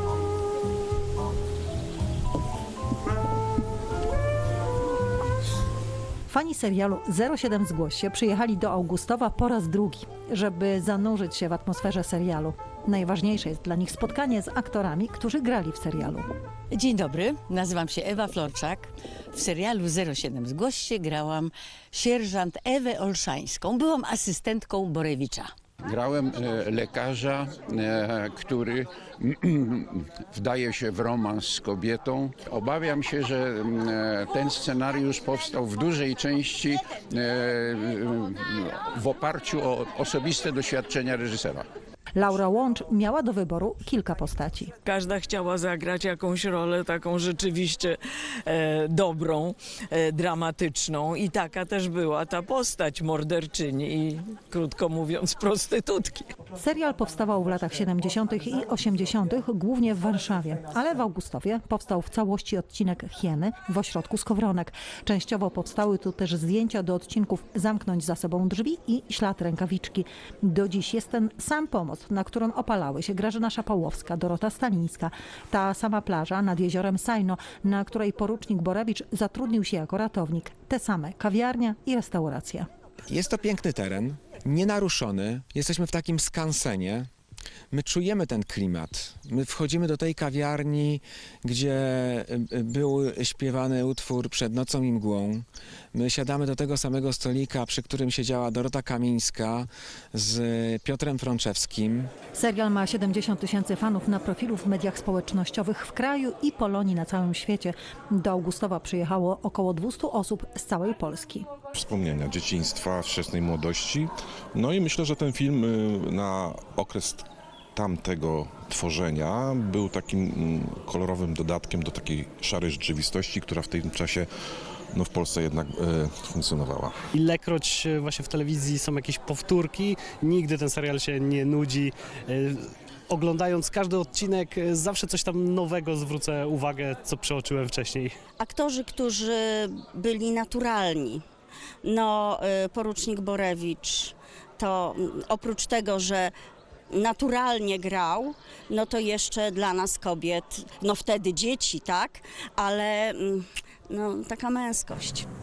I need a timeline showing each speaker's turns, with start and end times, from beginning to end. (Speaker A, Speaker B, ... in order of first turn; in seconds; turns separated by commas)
Speaker A: 6.3-16.2, Speaker B: 16.7-25.5, Speaker C: 25.8-41.7, Speaker A: 42.1-44.7, Speaker D: 44.8-56.3, Speaker A: 56.6-82.7, Speaker E: 83.1-87.1, Speaker E: 87.7-102.1, Speaker A: 102.3-111.5, Speaker F: 111.7-124.3, Speaker F: 124.9-127.0, Speaker G: 127.1-138.1, Speaker H: 138.4-141.2, Speaker H: 141.8-146.3, Speaker H: 146.9-155.3